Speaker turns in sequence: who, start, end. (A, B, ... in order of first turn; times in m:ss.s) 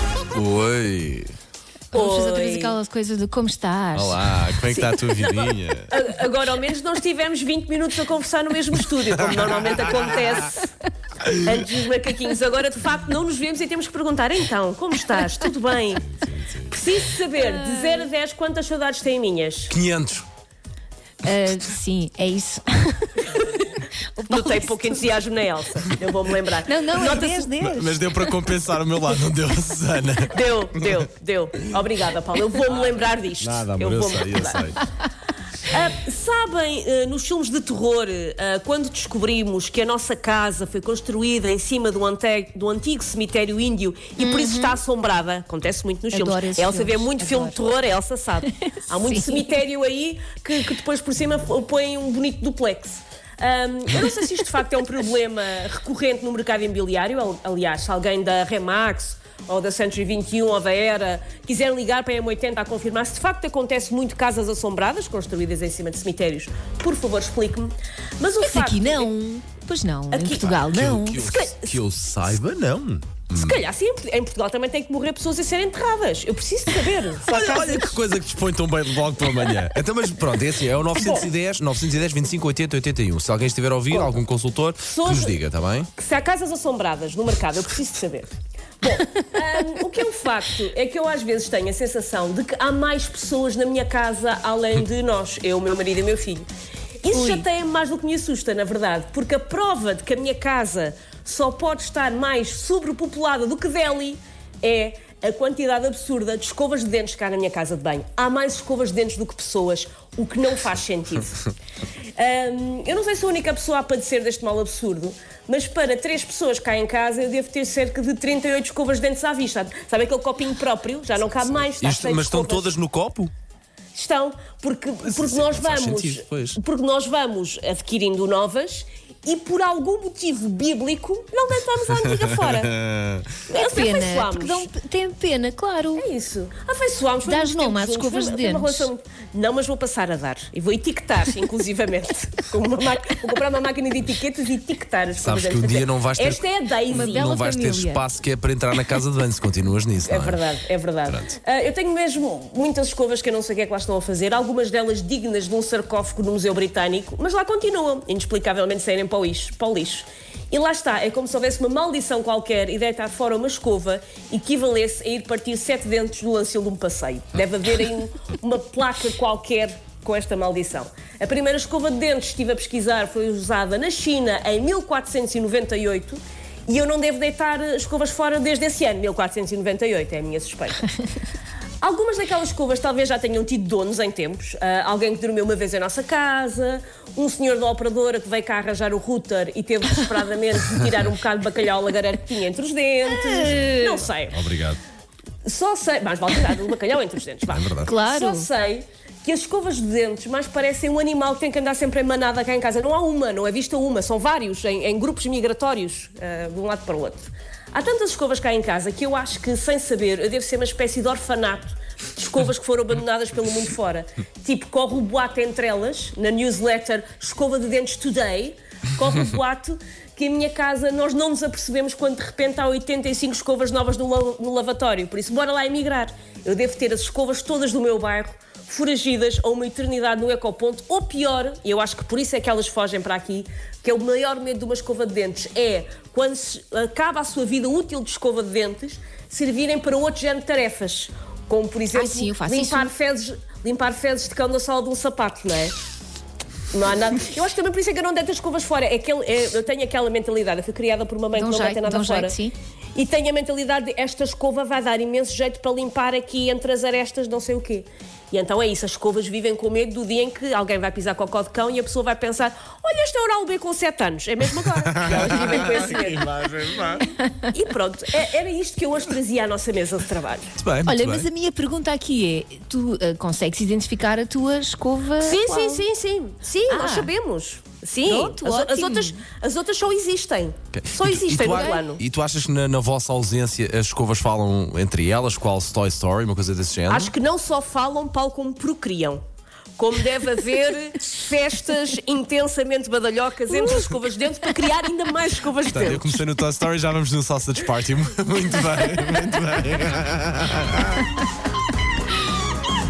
0:00.3-0:01.3 A
0:01.9-0:04.2 B
0:01.9-0:02.8 C
0:03.9-0:05.9 A
0:04.7-0:10.7 C
0:09.2-0:10.0 A
0:11.3-0:16.1 C
0:16.0-0:16.7 A
0:16.7-0:19.8 C
0:17.4-0:18.1 B
0:19.7-0:20.3 A
0:21.2-0:23.4 B
0:23.3-0:23.8 C
0:24.2-0:25.1 B
0:24.3-0:27.6 C
0:26.6-0:28.3 B
0:27.6-0:31.0 A
0:30.3-0:34.8 C
0:33.4-0:34.8 A
0:35.6-1:09.1 C
0:44.2-0:44.8 B
0:46.1-0:47.6 B
0:48.9-0:49.3 B
1:08.4-1:11.3 B
1:10.1-1:11.8 C
1:10.6-1:13.6 A
1:13.3-1:17.9 C
1:17.2-1:25.9 A
1:21.0-1:21.3 C
1:23.9-1:24.2 C
1:24.8-1:25.4 C
1:25.9-1:28.3 C
1:28.8-1:36.5 C
1:37.0-1:51.4 C
1:37.1-1:37.4 B
1:52.2-2:02.7 C
2:01.5-2:03.3 A
2:03.9-2:12.8 C
2:05.0-2:06.6 A
2:12.0-2:13.3 A
2:13.5-2:14.7 C
2:13.5-2:16.0 B
2:16.0-2:27.3 C
2:17.2-2:18.9 B
2:25.2-2:26.4 A
2:26.9-2:28.0 B
2:26.9-2:30.4 A
2:30.0-3:00.9 C
3:01.8-3:14.4 C
3:13.1-3:14.0 B
3:13.6-3:14.8 A
3:15.4-4:05.8 C
3:17.5-3:17.9 A
3:17.8-3:18.5 B
4:01.9-4:02.9 B
4:06.7-4:12.4 C
4:11.3-4:12.5 B
4:13.0-4:26.4 C
4:24.6-4:27.1 A
4:27.5-4:30.6 C
4:30.6-4:31.3 A
4:30.8-4:35.8 B
4:35.2-4:42.0 C
4:36.7-4:37.1 B
4:38.0-4:39.2 B
4:40.7-4:47.1 A
4:46.9-4:49.2 C
4:49.8-4:56.2 C
4:55.6-5:01.0 A